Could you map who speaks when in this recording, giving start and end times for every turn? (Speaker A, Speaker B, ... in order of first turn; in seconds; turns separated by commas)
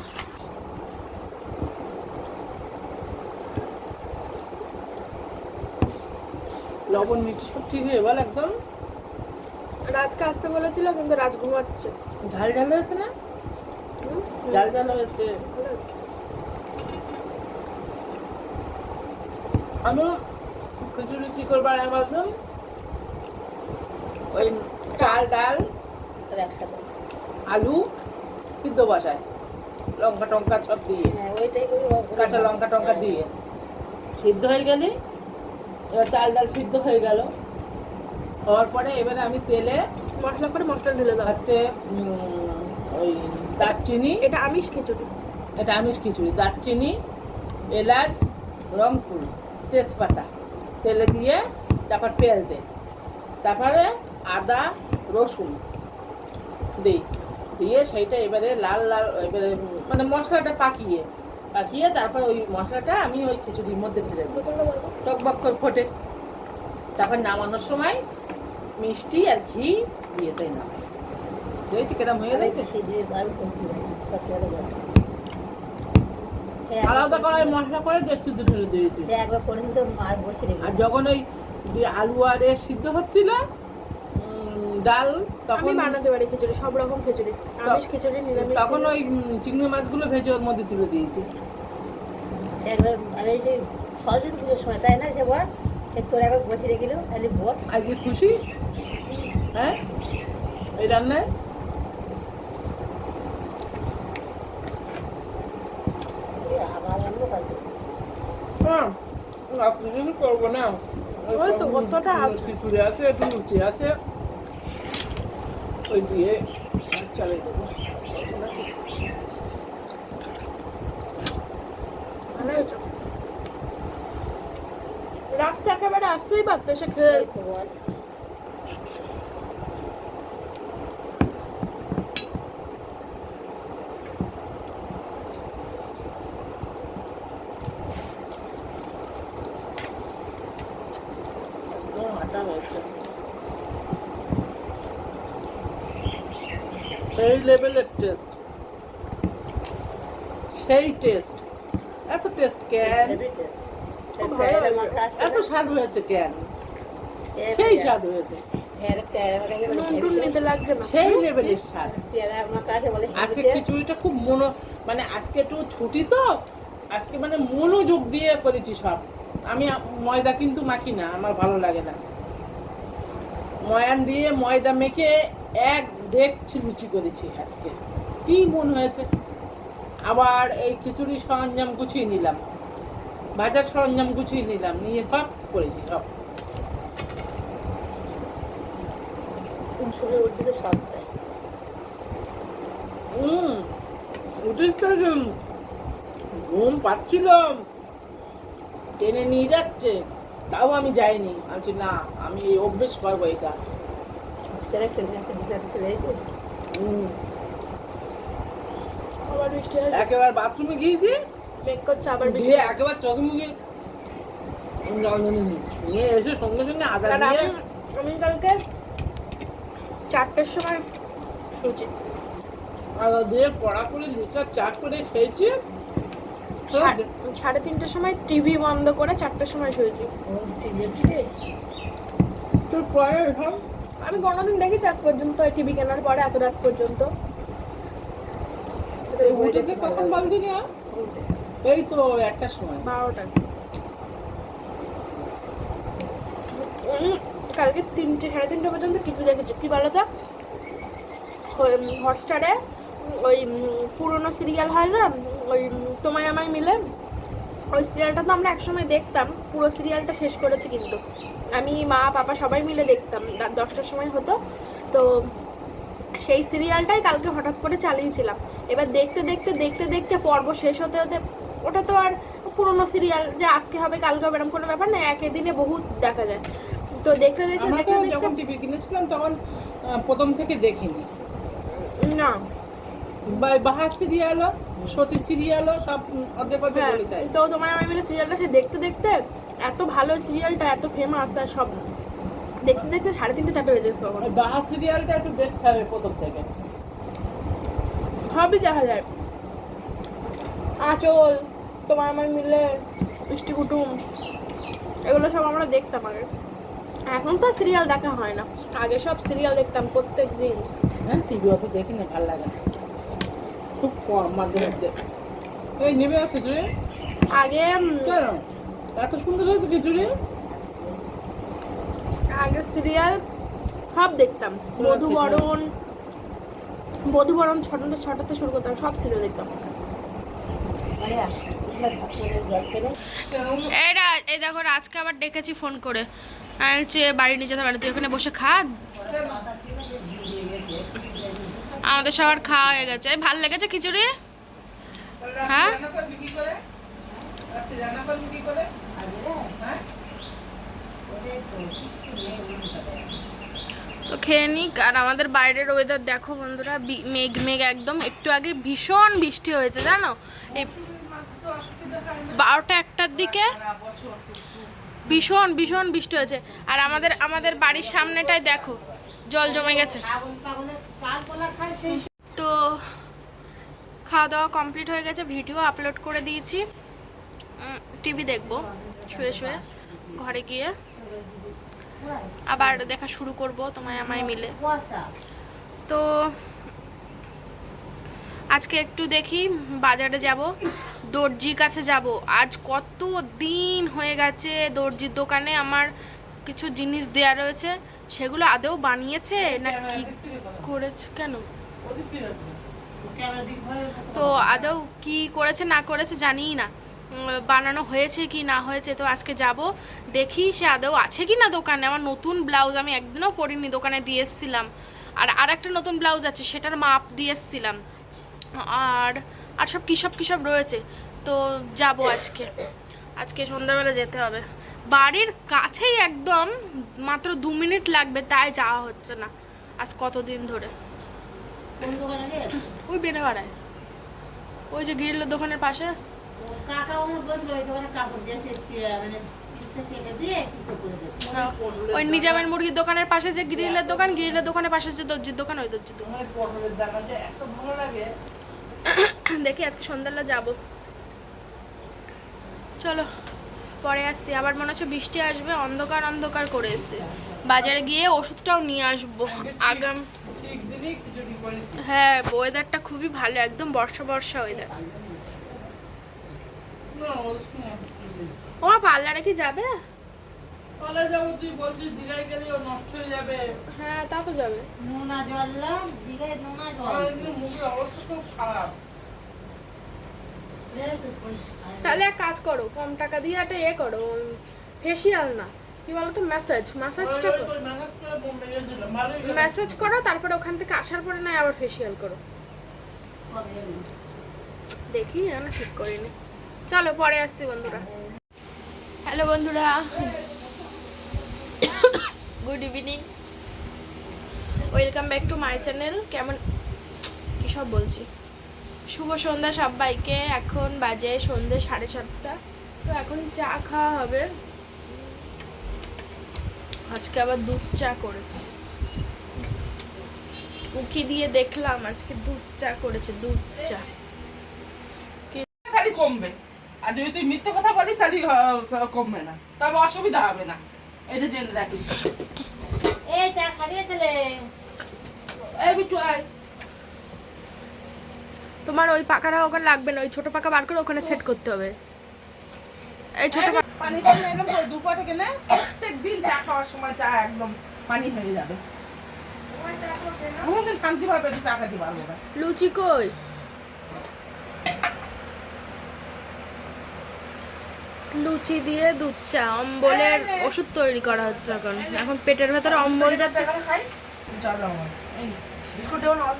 Speaker A: 6.9-8.6, Speaker B: 9.9-11.9, Speaker A: 12.3-13.1, Speaker B: 14.0-15.8, Speaker A: 14.5-15.3, Speaker A: 19.8-20.1, Speaker A: 20.8-22.3, Speaker A: 24.3-25.6, Speaker B: 24.9-25.2, Speaker C: 26.3-26.9, Speaker A: 27.5-27.8, Speaker A: 28.6-29.2, Speaker A: 30.0-31.1, Speaker C: 31.0-33.2, Speaker A: 32.1-33.3, Speaker A: 34.2-34.9, Speaker A: 36.0-37.3, Speaker A: 38.5-39.8, Speaker B: 40.2-41.4, Speaker A: 41.2-44.2, Speaker B: 43.6-45.1, Speaker A: 45.6-46.9, Speaker A: 47.7-48.2, Speaker A: 48.7-50.3, Speaker A: 50.8-52.6, Speaker A: 53.4-55.6, Speaker A: 57.6-64.4, Speaker B: 64.3-65.0, Speaker A: 65.0-65.9, Speaker A: 67.0-68.0, Speaker A: 68.8-70.8, Speaker A: 71.7-72.7, Speaker C: 72.3-74.9, Speaker C: 76.7-77.6, Speaker A: 76.8-79.1, Speaker C: 79.1-80.9, Speaker A: 80.6-83.4, Speaker A: 84.2-85.9, Speaker B: 85.5-88.9, Speaker A: 88.3-91.2, Speaker C: 92.6-97.6, Speaker A: 97.7-98.3, Speaker C: 99.0-99.4, Speaker A: 100.8-101.3, Speaker C: 106.3-107.8, Speaker A: 108.6-108.9, Speaker A: 109.5-113.9, Speaker B: 111.3-112.5, Speaker A: 115.9-118.7, Speaker B: 122.3-122.8, Speaker B: 125.3-127.2, Speaker C: 127.0-127.7, Speaker A: 141.7-142.9, Speaker A: 147.2-148.3, Speaker A: 150.5-151.4, Speaker A: 152.1-153.2, Speaker C: 152.8-155.5, Speaker B: 154.2-155.0, Speaker A: 155.2-156.4, Speaker C: 157.4-157.9, Speaker A: 157.5-158.4, Speaker C: 158.8-160.5, Speaker B: 159.7-161.6, Speaker A: 160.8-161.9, Speaker C: 161.8-163.7, Speaker A: 163.2-166.3, Speaker A: 166.9-172.0, Speaker A: 173.7-175.1, Speaker A: 175.6-177.7, Speaker A: 178.2-179.1, Speaker A: 180.1-182.4, Speaker A: 183.4-186.1, Speaker C: 189.8-191.1, Speaker A: 193.1-193.7, Speaker A: 194.4-195.3, Speaker A: 196.3-197.6, Speaker A: 199.0-200.0, Speaker A: 200.5-203.6, Speaker C: 204.5-206.2, Speaker A: 206.7-207.1, Speaker B: 209.3-210.1, Speaker A: 209.9-211.1, Speaker B: 211.6-212.7, Speaker A: 212.2-213.5, Speaker A: 214.8-217.5, Speaker B: 217.1-218.6, Speaker B: 220.1-220.8, Speaker B: 221.5-221.9, Speaker A: 223.0-225.5, Speaker B: 226.7-230.1, Speaker A: 226.7-227.1, Speaker C: 230.3-231.3, Speaker A: 232.7-233.6, Speaker B: 234.0-237.1, Speaker C: 239.1-240.3, Speaker A: 239.2-241.1, Speaker A: 241.6-242.9, Speaker B: 242.8-243.3, Speaker B: 246.5-250.1, Speaker B: 251.5-256.8, Speaker B: 257.7-261.0, Speaker B: 261.5-264.4, Speaker B: 264.9-265.3, Speaker B: 266.2-276.4, Speaker B: 276.9-278.3, Speaker A: 277.6-281.1, Speaker B: 281.7-282.4, Speaker A: 283.2-287.3, Speaker B: 286.7-291.8, Speaker B: 292.6-294.3, Speaker A: 294.2-296.5, Speaker B: 298.3-299.1, Speaker B: 300.8-302.7, Speaker B: 303.3-304.0, Speaker B: 305.1-306.3, Speaker B: 307.1-310.7, Speaker A: 311.1-312.6, Speaker A: 313.8-314.9, Speaker A: 315.8-316.7, Speaker B: 317.3-318.2, Speaker A: 318.0-318.4, Speaker A: 318.9-320.1, Speaker C: 320.3-321.3, Speaker B: 322.3-323.2, Speaker B: 323.9-325.6, Speaker A: 324.8-325.5, Speaker B: 327.1-329.5, Speaker C: 330.6-332.9, Speaker A: 333.3-333.7, Speaker B: 333.7-336.1, Speaker B: 336.6-338.7, Speaker C: 338.9-343.0, Speaker A: 339.1-339.4, Speaker B: 341.8-344.1, Speaker A: 345.2-346.6, Speaker B: 345.5-345.8, Speaker C: 347.0-347.3, Speaker A: 347.5-348.7, Speaker C: 348.9-349.5, Speaker C: 351.1-353.2, Speaker B: 354.1-360.7, Speaker A: 360.5-362.4, Speaker B: 362.3-363.6, Speaker A: 363.1-364.7, Speaker B: 365.1-370.0, Speaker A: 366.8-369.0, Speaker C: 369.4-372.0, Speaker B: 372.3-373.0, Speaker B: 374.1-376.6, Speaker B: 377.6-379.6, Speaker C: 378.4-380.4, Speaker B: 380.1-380.7, Speaker C: 380.9-382.9, Speaker B: 382.5-384.5, Speaker C: 383.8-385.1, Speaker B: 385.9-386.4, Speaker B: 388.5-390.5, Speaker B: 391.1-395.9, Speaker B: 396.4-400.1, Speaker A: 399.4-400.7, Speaker B: 400.6-401.4, Speaker A: 401.8-402.6, Speaker C: 403.0-404.7, Speaker B: 404.1-417.8, Speaker B: 418.6-422.5, Speaker B: 423.2-430.7, Speaker C: 431.8-432.7, Speaker B: 432.9-433.5, Speaker B: 434.7-436.0, Speaker C: 436.4-441.3, Speaker A: 441.2-442.5, Speaker B: 441.3-446.1, Speaker C: 443.6-444.4, Speaker A: 446.0-448.1, Speaker B: 448.9-450.6, Speaker B: 452.8-453.1, Speaker B: 453.8-460.1, Speaker C: 457.1-457.4, Speaker A: 459.3-461.8, Speaker B: 461.8-464.7, Speaker C: 464.5-465.7, Speaker A: 466.9-468.4, Speaker B: 468.6-469.7, Speaker A: 470.8-473.6, Speaker B: 473.7-474.7, Speaker C: 474.8-477.3, Speaker A: 476.8-478.7, Speaker C: 480.7-482.1, Speaker B: 481.8-487.5, Speaker A: 487.0-489.9, Speaker B: 489.2-492.2, Speaker C: 493.3-493.9, Speaker B: 494.9-496.1, Speaker B: 496.7-497.9, Speaker C: 497.7-498.1, Speaker B: 499.0-500.1, Speaker A: 499.9-501.1, Speaker B: 501.7-503.1, Speaker B: 504.7-506.4, Speaker B: 507.4-508.1, Speaker B: 508.9-514.3, Speaker B: 516.9-518.4, Speaker B: 520.7-523.8, Speaker A: 523.5-523.9, Speaker A: 525.6-532.1, Speaker C: 533.1-534.5, Speaker A: 535.5-536.2, Speaker B: 538.6-541.7, Speaker B: 543.2-543.6, Speaker A: 543.3-548.6, Speaker B: 549.5-550.5, Speaker A: 550.4-552.2, Speaker B: 552.4-553.1, Speaker B: 558.1-563.5, Speaker A: 559.8-560.5, Speaker A: 561.0-562.1, Speaker A: 562.6-566.1